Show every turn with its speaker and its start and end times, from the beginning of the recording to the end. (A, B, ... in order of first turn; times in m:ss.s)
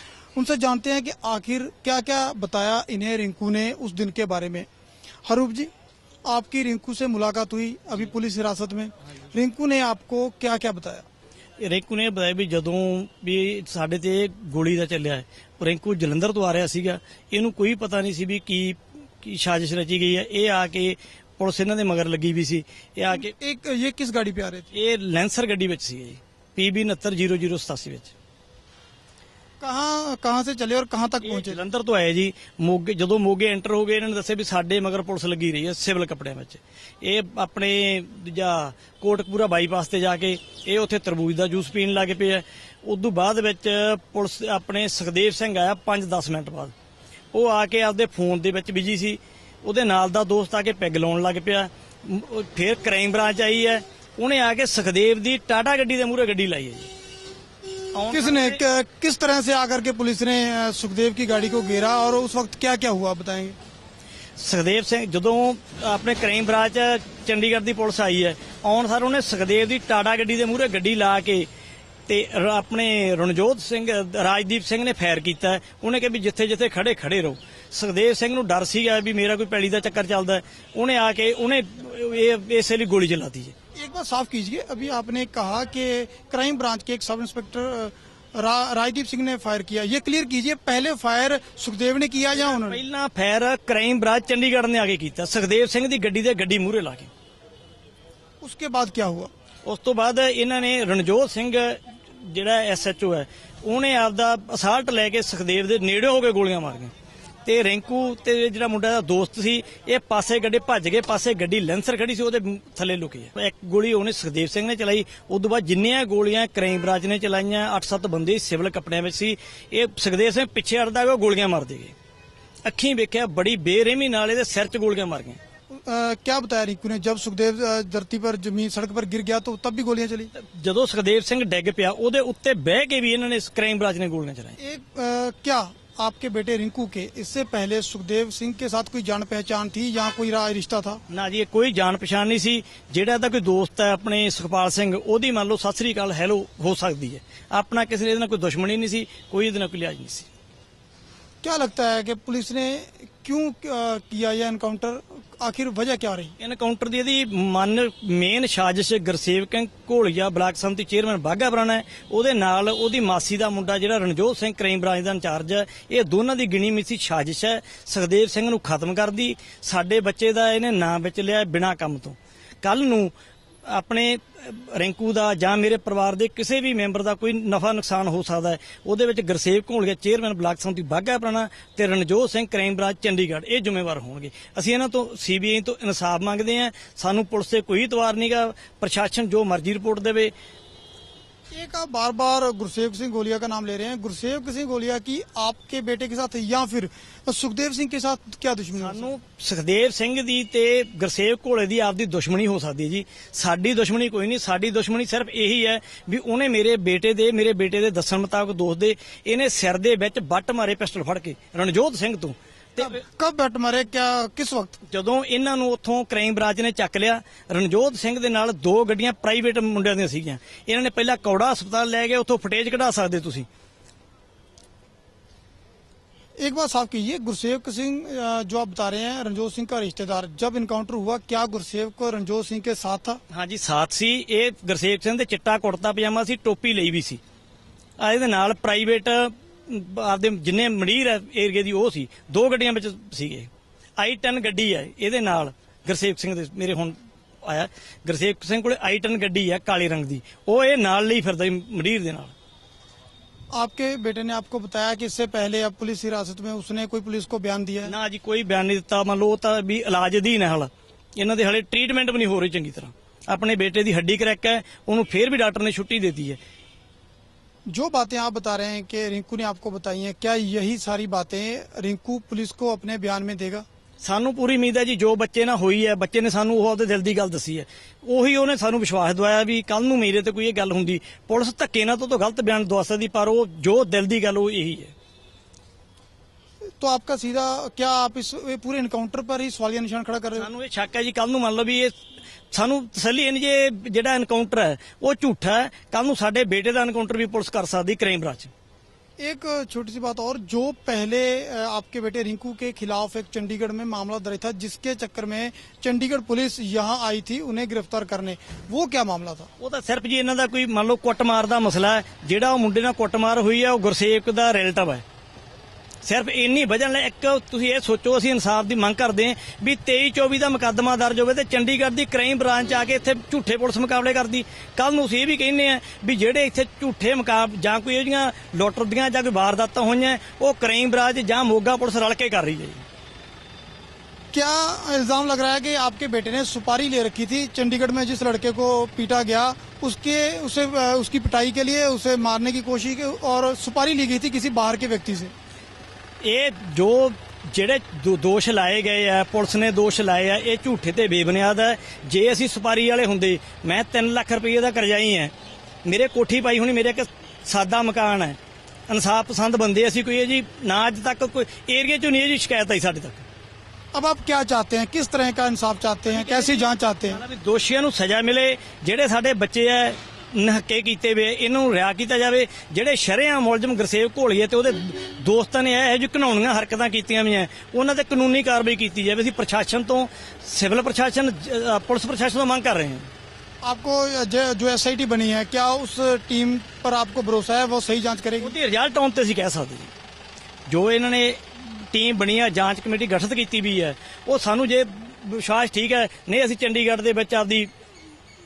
0:00.4-0:04.7 A
0:05.3-0:05.7 A
0:06.3-0:11.1 A
0:11.6-0:23.3 B
0:23.1-0:24.7 A
0:24.7-0:28.1 B
0:29.6-0:31.6 A
0:31.2-0:46.7 B
0:47.3-0:56.9 B
0:57.9-0:58.6 B
0:58.1-1:03.6 A
1:04.4-1:11.5 B
1:12.1-1:23.5 B
1:23.8-1:32.8 A
1:32.4-1:37.1 B
1:38.4-1:39.3 A
1:39.6-1:46.9 B
1:47.4-2:01.9 B
2:02.6-2:05.4 B
2:05.7-2:10.3 A
2:10.3-2:14.6 B
2:14.6-2:21.0 A
2:21.1-2:30.3 B
2:31.4-2:36.4 A
2:36.4-2:53.1 B
2:53.7-3:10.3 B
3:11.5-3:19.1 A
3:18.8-3:33.0 B
3:32.8-3:34.8 A
3:34.9-3:43.5 B
3:46.4-3:53.2 A
3:53.3-3:57.2 B
3:58.0-4:12.3 B
4:13.5-4:17.9 A
4:17.8-4:26.4 B
4:27.7-4:33.6 A
4:34.0-4:44.9 B
4:46.8-4:50.5 A
4:50.4-4:51.9 B
4:52.5-4:58.5 B
4:59.2-5:09.5 A
5:09.6-5:15.0 B
5:16.0-5:32.8 B
5:34.3-5:45.3 A
5:46.2-5:55.3 B
5:55.8-5:58.4 B
5:58.9-6:03.2 B
6:03.9-6:07.2 A
6:06.1-6:23.1 B
6:23.6-6:28.6 A
6:28.4-6:29.9 B
6:30.7-6:37.7 B